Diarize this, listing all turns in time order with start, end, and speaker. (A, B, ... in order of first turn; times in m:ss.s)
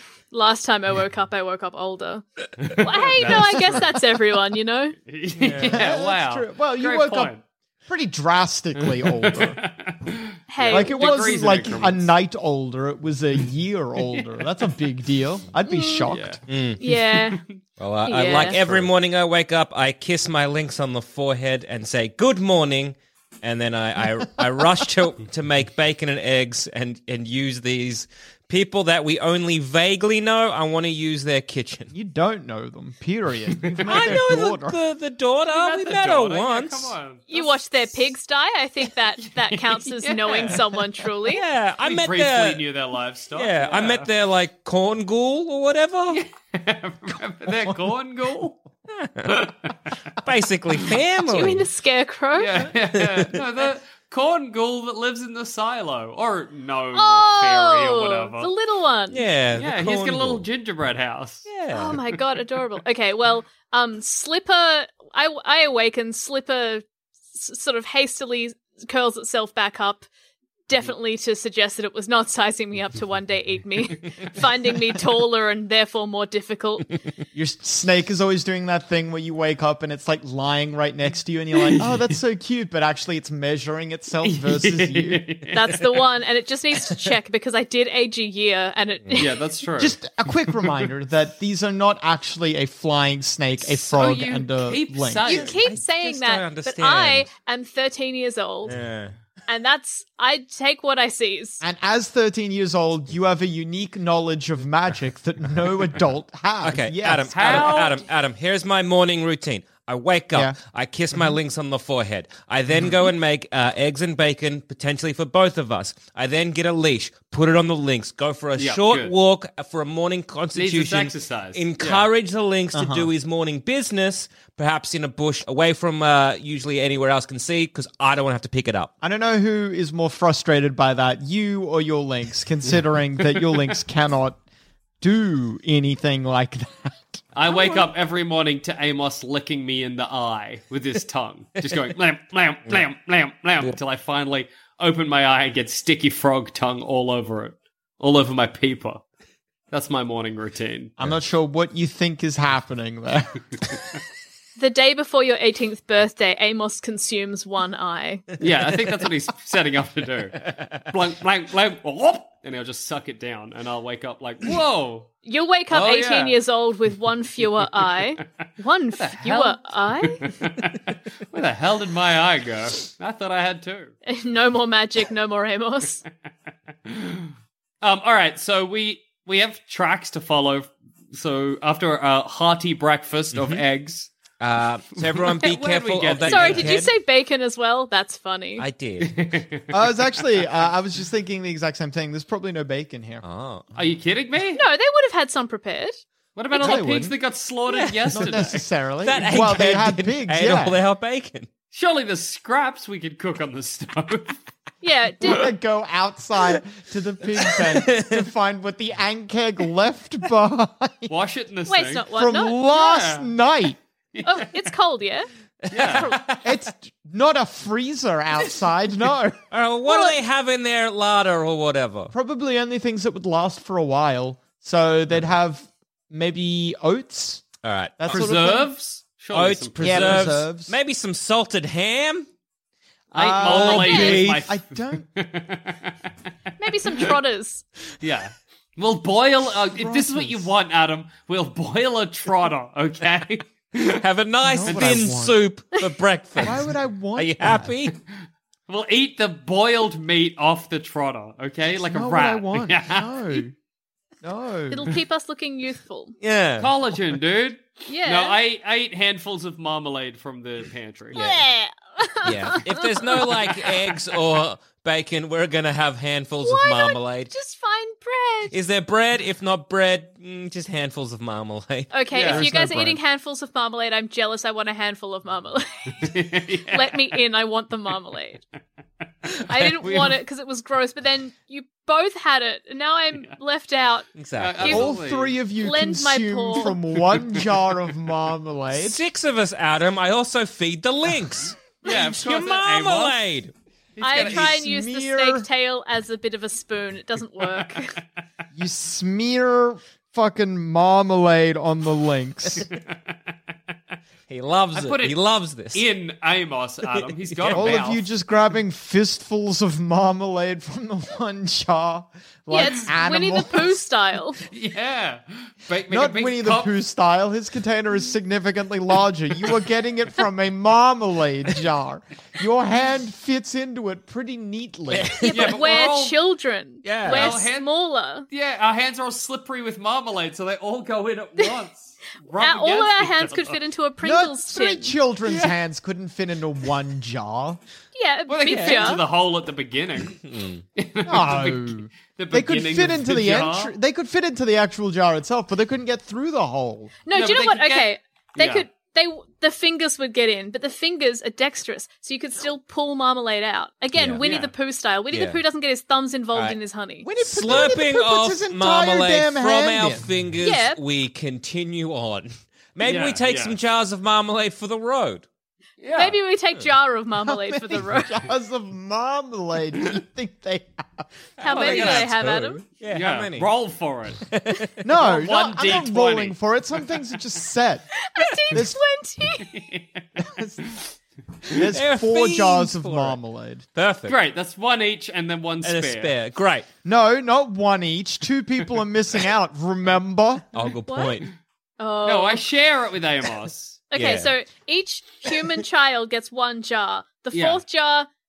0:00.3-0:05.0 A
0:02.6-0:03.8 B
0:05.1-0:07.4 B
0:05.4-0:05.8 C
0:05.6-0:07.3 D
0:07.9-0:09.6 D
0:08.9-0:12.1 B
0:10.5-0:11.6 A
0:10.7-0:16.4 D
0:14.0-0:14.7 B
0:15.7-0:16.1 A
0:16.1-0:17.6 B
0:16.5-0:16.8 C
0:16.8-0:17.4 A
0:17.8-0:31.9 C
0:18.0-0:18.6 A
0:31.9-0:34.8 D
0:33.7-0:34.2 B
0:33.8-0:37.0 C
0:35.5-0:38.0 B
0:37.3-0:41.4 A
0:39.2-0:40.8 B
0:41.3-0:42.6 C
0:41.8-0:44.1 B
0:43.4-0:46.2 C
0:46.1-0:48.6 B
0:48.9-0:49.4 C
0:49.3-0:49.9 B
0:50.2-0:51.7 C
0:51.3-0:52.7 A
0:52.4-0:58.5 B
0:53.0-0:53.3 C
0:56.9-0:59.2 A
0:59.1-1:00.4 C
0:59.6-1:01.5 B
1:01.5-1:02.0 C
1:01.7-1:10.1 A
1:10.7-1:16.9 A
1:17.3-1:25.2 D
1:21.6-1:22.0 B
1:24.2-1:25.6 B
1:25.5-1:29.4 A
1:29.2-1:30.0 B
1:29.8-1:35.3 D
1:30.6-1:30.8 B
1:33.6-1:35.6 B
1:35.3-1:38.8 A
1:35.3-1:37.3 C
1:38.7-1:39.1 C
1:39.5-1:41.6 A
1:41.6-1:47.9 D
1:46.6-2:08.9 C
1:47.3-1:48.0 B
1:50.3-1:50.6 D
1:58.6-1:59.1 B
2:00.6-2:02.1 B
2:02.7-2:03.1 D
2:09.0-2:14.4 D
2:15.0-2:17.2 D
2:17.3-2:29.0 B
2:17.5-2:17.8 C
2:29.7-2:30.9 B
2:31.0-2:33.4 D
2:34.6-2:38.3 A
2:38.4-2:45.1 B
2:40.5-2:40.8 C
2:45.2-2:50.3 A
2:45.7-2:46.4 B
2:48.9-2:53.9 B
2:54.0-2:56.0 A
2:56.9-3:04.1 B
3:03.3-3:03.6 C
3:04.4-3:06.9 C
3:05.0-3:06.8 B
3:06.2-3:08.7 A
3:08.6-3:09.3 C
3:09.0-3:09.7 B
3:09.7-3:13.2 D
3:13.2-3:13.7 C
3:13.8-3:14.6 B
3:14.6-3:16.0 A
3:16.4-3:18.7 B
3:16.5-3:17.2 D
3:17.7-3:18.4 C
3:18.1-3:20.8 D
3:19.0-3:21.5 C
3:21.7-3:24.4 B
3:24.8-3:25.5 A
3:25.2-3:31.1 D
3:27.8-3:28.2 C
3:31.1-3:32.1 B
3:31.7-3:32.6 A
3:32.1-3:33.8 D
3:32.7-3:33.3 B
3:34.1-3:34.5 B
3:34.2-3:36.2 A
3:35.7-3:36.5 C
3:35.7-3:36.2 B
3:36.4-3:39.4 D
3:39.5-3:42.1 C
3:39.9-3:40.1 A
3:42.1-3:48.7 D
3:47.6-3:48.2 C
3:48.1-3:50.4 B
3:49.3-3:52.3 C
3:49.8-3:50.8 D
3:53.1-3:56.0 B
3:53.2-3:55.1 D
3:53.4-3:54.5 C
3:53.6-3:54.2 A
3:56.6-3:57.6 A
3:56.9-3:57.2 B
3:58.0-4:04.0 B
3:59.8-4:00.5 D
4:03.9-4:06.6 C
4:04.4-4:05.4 D
4:04.7-4:05.0 B
4:06.4-4:07.7 D
4:07.2-4:08.0 C
4:08.7-4:13.1 B
4:11.9-4:13.6 D
4:14.2-4:14.9 D
4:14.7-4:16.2 A
4:16.2-4:16.7 C
4:16.6-4:21.2 B
4:17.9-4:18.4 A
4:21.1-4:21.4 C
4:21.1-4:23.7 A
4:22.2-4:27.3 C
4:26.4-4:28.6 A
4:28.5-4:32.5 C
4:31.9-4:38.4 A
4:32.1-4:32.4 B
4:32.3-4:33.0 D
4:36.0-4:37.1 B
4:39.5-4:44.1 A
4:39.8-4:40.2 B
4:44.2-4:44.9 C
4:44.4-4:45.3 B
4:44.6-4:44.9 A
4:44.6-4:49.0 D
4:45.6-4:46.8 A
4:48.7-4:53.5 C
4:51.8-4:53.2 B
4:54.0-4:54.5 B
4:54.0-4:58.0 A
4:54.2-4:55.5 D
4:58.6-5:02.7 D
5:04.3-5:05.9 C
5:04.7-5:05.2 B
5:05.7-5:08.1 B
5:07.4-5:07.8 C
5:07.5-5:13.8 D
5:12.5-5:14.4 A
5:14.5-5:16.7 B
5:15.9-5:25.1 D
5:24.9-5:25.5 C
5:25.2-5:28.3 A
5:25.3-5:26.2 B
5:26.8-5:27.5 C
5:27.0-5:27.7 B
5:28.3-5:33.6 B
5:32.4-5:35.0 A
5:34.0-5:37.6 D
5:38.0-5:39.0 A
5:38.3-5:40.2 B
5:38.5-5:38.9 C
5:40.2-5:40.6 C
5:40.8-5:43.7 B
5:41.1-5:47.0 D
5:47.1-5:57.1 A
5:47.1-5:48.7 B
5:54.0-5:54.2 C
5:54.2-5:54.5 B
5:55.1-5:55.4 C
5:57.0-6:00.1 D
5:57.2-6:05.2 C
6:00.4-6:00.8 A
6:02.8-6:03.6 B
6:05.8-6:06.2 B
6:05.9-6:08.2 A
6:07.2-6:11.1 D
6:11.4-6:13.5 C
6:11.4-6:12.6 A
6:11.5-6:12.3 B
6:12.8-6:14.3 B
6:14.2-6:14.8 C
6:14.8-6:17.9 D
6:15.0-6:16.8 B
6:18.1-6:19.5 A
6:18.5-6:18.8 D
6:19.4-6:20.0 B
6:20.3-6:20.6 D
6:21.5-6:23.7 D
6:21.5-6:23.2 C
6:23.7-6:24.2 C
6:24.1-6:26.1 B
6:25.6-6:26.7 C
6:26.8-6:30.5 D
6:30.5-6:31.3 C
6:30.9-6:31.2 A
6:31.8-6:32.4 A
6:32.0-6:33.8 B
6:33.9-6:38.1 A
6:33.9-6:34.3 C
6:37.3-6:37.6 B